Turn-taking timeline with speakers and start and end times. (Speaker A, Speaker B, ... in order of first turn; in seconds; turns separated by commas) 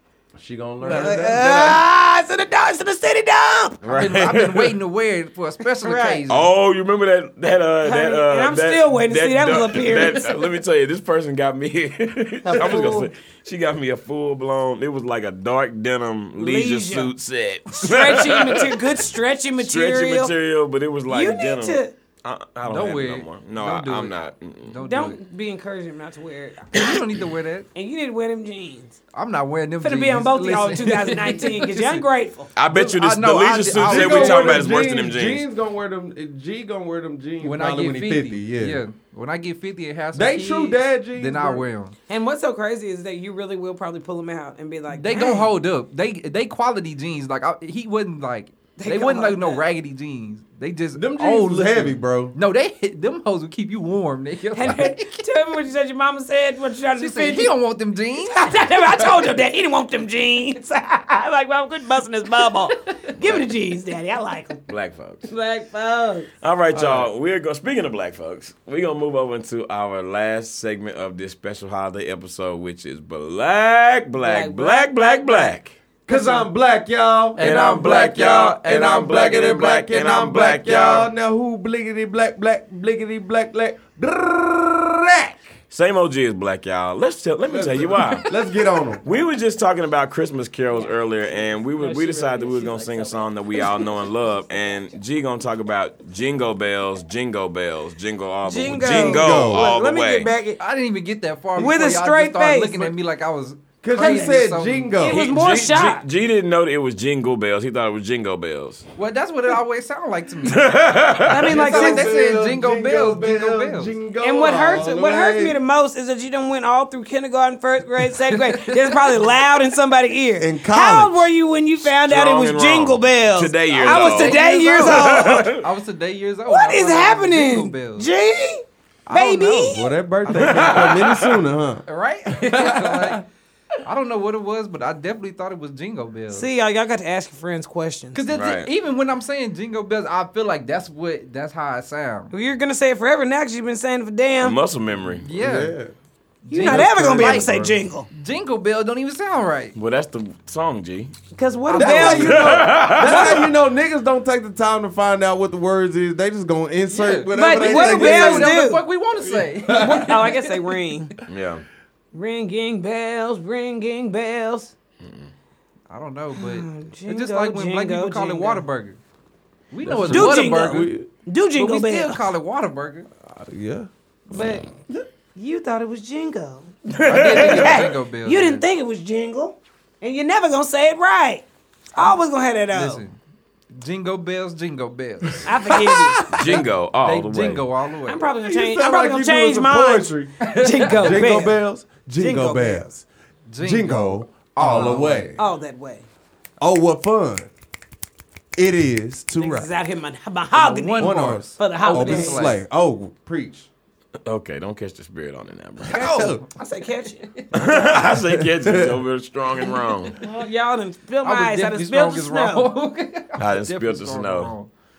Speaker A: 0.3-1.8, Speaker B: 0.8-1.1, Speaker C: 0.9-3.8, Speaker D: 3.8-4.8, Speaker B: 3.9-6.5, Speaker C: 5.8-6.2, Speaker D: 6.3-18.9, Speaker C: 7.8-10.3, Speaker C: 12.4-13.1, Speaker C: 16.4-17.1, Speaker C: 17.7-20.3, Speaker D: 19.6-24.8, Speaker C: 21.1-21.9, Speaker B: 22.6-25.2, Speaker C: 24.9-26.7, Speaker B: 26.7-27.7, Speaker D: 26.8-27.0, Speaker C: 27.8-29.0, Speaker B: 29.1-32.0, Speaker C: 29.8-32.5, Speaker D: 32.6-35.4, Speaker B: 32.7-34.8, Speaker A: 33.8-38.8, Speaker B: 37.4-42.0, Speaker A: 40.1-41.6, Speaker C: 42.1-45.5, Speaker B: 44.9-55.2, Speaker C: 48.8-49.6, Speaker A: 51.0-52.3, Speaker C: 54.5-57.5, Speaker B: 57.0-58.8, Speaker C: 58.2-64.6, Speaker D: 64.7-65.2, Speaker C: 65.2-66.3, Speaker D: 66.4-75.8, Speaker A: 66.7-67.1, Speaker C: 74.2-76.5, Speaker A: 76.1-85.5, Speaker B: 77.4-79.4, Speaker D: 77.4-81.1, Speaker D: 85.7-88.3, Speaker A: 87.5-89.0, Speaker D: 89.0-100.3, Speaker C: 91.7-93.8, Speaker C: 98.4-100.6, Speaker A: 98.8-99.8, Speaker B: 100.6-105.0, Speaker C: 101.6-102.9, Speaker A: 103.8-105.3, Speaker C: 104.0-104.4, Speaker C: 105.0-106.0, Speaker D: 105.1-108.9, Speaker B: 109.0-110.7, Speaker D: 110.5-111.7, Speaker C: 111.2-112.2, Speaker A: 111.5-115.6, Speaker B: 111.5-114.0, Speaker C: 114.2-125.5, Speaker B: 118.3-119.1, Speaker A: 120.4-121.3, Speaker D: 121.8-125.6, Speaker B: 123.8-128.1, Speaker C: 126.5-129.9, Speaker A: 129.1-131.8, Speaker B: 129.1-129.7, Speaker B: 130.2-131.2, Speaker D: 130.3-131.4, Speaker B: 131.9-133.3, Speaker A: 132.4-133.2, Speaker B: 133.8-136.5, Speaker C: 136.3-138.2, Speaker B: 138.1-142.3, Speaker D: 138.3-138.7, Speaker C: 142.3-144.6, Speaker D: 144.4-145.3, Speaker B: 145.2-145.8, Speaker A: 145.4-145.9, Speaker B: 146.4-149.8, Speaker C: 146.5-148.1, Speaker A: 146.6-147.6, Speaker D: 146.7-147.5, Speaker D: 149.8-151.1, Speaker C: 151.3-153.0, Speaker B: 151.7-152.5, Speaker A: 151.7-158.5, Speaker D: 152.0-153.5, Speaker B: 156.9-160.5, Speaker C: 157.3-158.8, Speaker A: 159.3-160.1, Speaker C: 159.7-161.1, Speaker D: 161.3-161.7, Speaker C: 162.1-164.7, Speaker D: 165.0-165.3, Speaker B: 165.9-169.0, Speaker C: 166.3-168.6, Speaker B: 169.7-170.9, Speaker A: 169.8-171.1, Speaker C: 170.1-172.3, Speaker B: 171.6-173.1, Speaker A: 173.2-173.9, Speaker C: 174.3-174.7, Speaker C: 175.3-176.7, Speaker D: 176.9-177.9, Speaker B: 177.1-178.6, Speaker C: 177.4-183.0, Speaker B: 182.7-183.2, Speaker B: 183.8-185.5, Speaker C: 185.4-186.2, Speaker A: 185.7-186.6, Speaker D: 186.4-187.7, Speaker B: 186.5-188.2, Speaker C: 188.1-191.6, Speaker A: 188.4-193.1, Speaker B: 190.5-191.2, Speaker C: 192.2-192.9, Speaker B: 193.5-195.3, Speaker A: 193.6-195.4, Speaker C: 195.4-196.1, Speaker A: 196.6-197.5, Speaker A: 198.6-199.7, Speaker C: 199.4-202.5, Speaker B: 200.5-202.6, Speaker A: 201.0-203.7, Speaker D: 204.2-206.2, Speaker A: 205.8-206.4, Speaker C: 205.9-207.3, Speaker B: 206.0-206.4, Speaker D: 207.5-210.2, Speaker A: 207.6-209.0, Speaker C: 210.2-212.7, Speaker B: 211.2-214.7, Speaker D: 213.4-214.5